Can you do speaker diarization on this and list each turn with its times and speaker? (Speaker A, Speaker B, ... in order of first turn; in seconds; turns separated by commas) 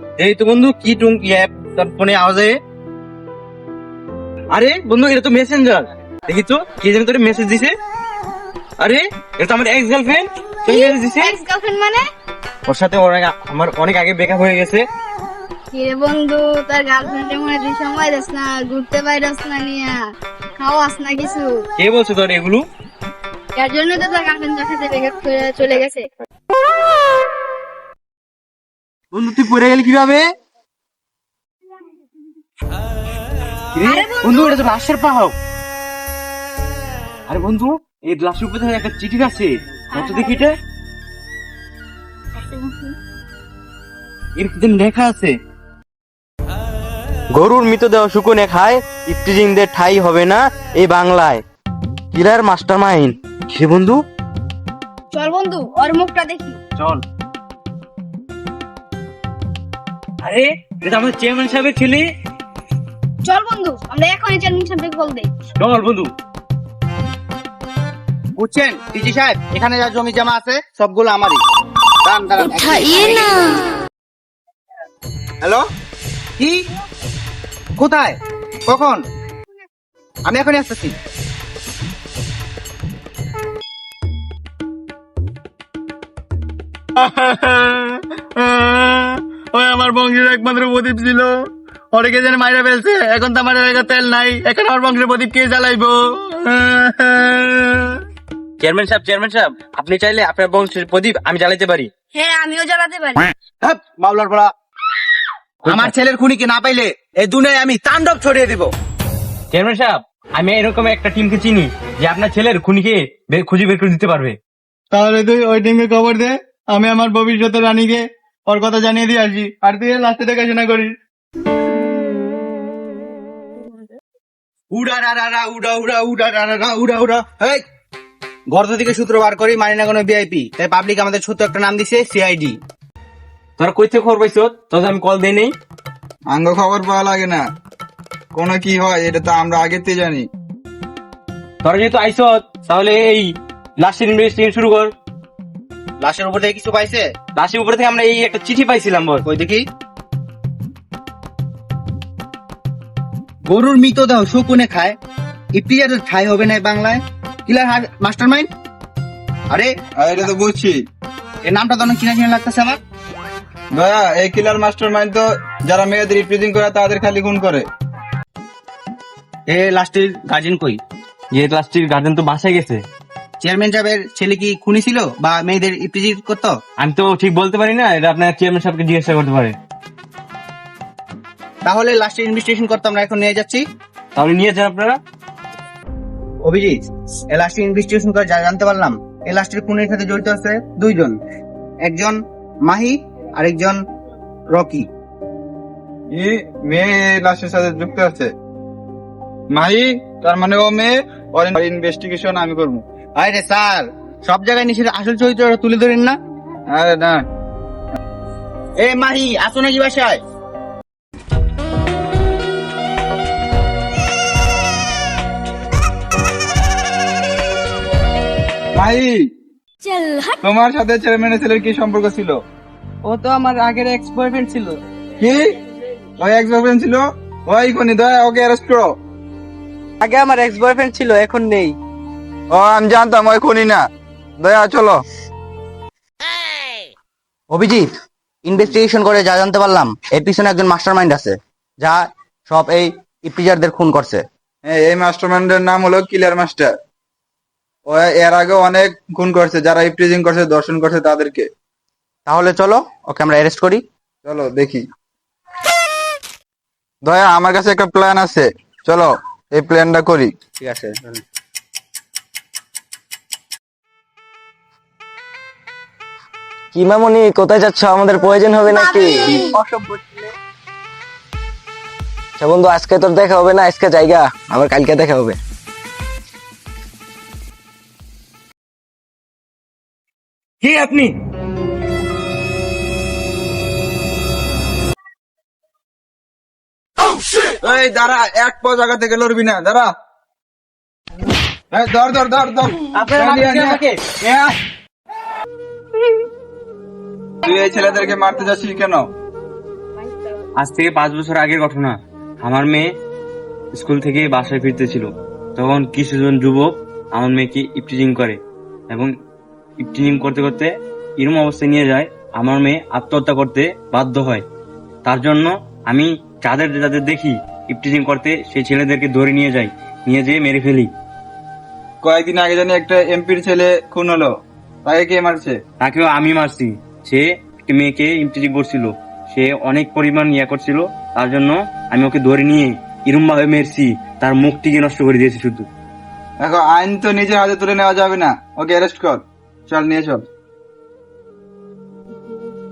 Speaker A: 0.2-2.6, Speaker A: 4.5-7.7, Speaker A: 8.8-11.4, Speaker B: 10.7-12.0, Speaker A: 12.7-14.8, Speaker B: 15.7-19.9, Speaker B: 20.6-21.6, Speaker A: 21.8-22.6, Speaker B: 23.6-26.0, Speaker A: 29.1-30.3, Speaker A: 33.7-35.3, Speaker B: 33.8-34.6, Speaker A: 37.3-40.5, Speaker B: 40.0-40.4, Speaker B: 42.4-42.9, Speaker A: 44.4-45.4, Speaker A: 47.3-51.4, Speaker A: 52.1-54.0, Speaker B: 55.1-56.6, Speaker A: 60.2-62.0, Speaker B: 63.2-65.3, Speaker A: 65.6-66.1, Speaker C: 68.4-71.4, Speaker C: 72.0-73.3, Speaker C: 77.8-79.0, Speaker C: 80.3-81.0, Speaker A: 87.0-91.4, Speaker A: 91.9-98.0, Speaker A: 98.6-101.9, Speaker B: 102.1-103.3, Speaker C: 103.6-104.5, Speaker A: 105.6-105.9, Speaker C: 105.7-108.7, Speaker A: 109.5-114.4, Speaker A: 114.9-121.0, Speaker C: 124.7-127.6, Speaker C: 128.5-132.6, Speaker A: 133.6-135.5, Speaker D: 136.3-137.4, Speaker D: 138.3-140.3, Speaker A: 141.6-144.9, Speaker C: 146.0-147.1, Speaker A: 147.3-149.2, Speaker C: 149.2-149.7, Speaker C: 153.4-155.0, Speaker C: 155.5-158.5, Speaker D: 160.0-160.8, Speaker C: 161.4-162.8, Speaker D: 163.8-167.7, Speaker C: 169.5-170.8, Speaker A: 171.3-172.8, Speaker C: 173.4-176.6, Speaker A: 176.8-179.6, Speaker C: 181.6-183.7, Speaker A: 184.2-185.0, Speaker C: 186.4-186.8, Speaker C: 187.3-191.2, Speaker C: 191.8-193.8, Speaker C: 194.5-194.9, Speaker D: 196.1-198.3, Speaker D: 199.5-202.8, Speaker C: 203.2-206.2, Speaker D: 206.7-207.2, Speaker C: 208.8-210.2, Speaker D: 218.8-219.2, Speaker D: 220.4-222.4, Speaker D: 225.2-225.5, Speaker D: 226.2-228.9, Speaker D: 232.5-233.8, Speaker D: 234.4-235.0, Speaker C: 237.5-237.9, Speaker C: 238.4-244.2, Speaker D: 244.7-246.7, Speaker D: 247.9-251.5, Speaker C: 252.3-253.8, Speaker D: 254.2-254.8, Speaker D: 257.0-260.3, Speaker C: 260.6-261.2, Speaker E: 266.7-269.3, Speaker D: 269.3-270.0, Speaker E: 272.4-275.4, Speaker A: 280.6-281.1, Speaker D: 287.6-289.9, Speaker D: 291.7-293.8, Speaker A: 292.9-294.3, Speaker D: 297.4-299.1, Speaker A: 300.6-302.9, Speaker A: 303.8-309.1, Speaker A: 309.8-314.4, Speaker A: 315.1-320.9, Speaker D: 322.0-324.3, Speaker D: 324.9-325.6, Speaker A: 325.8-335.7, Speaker D: 336.4-340.2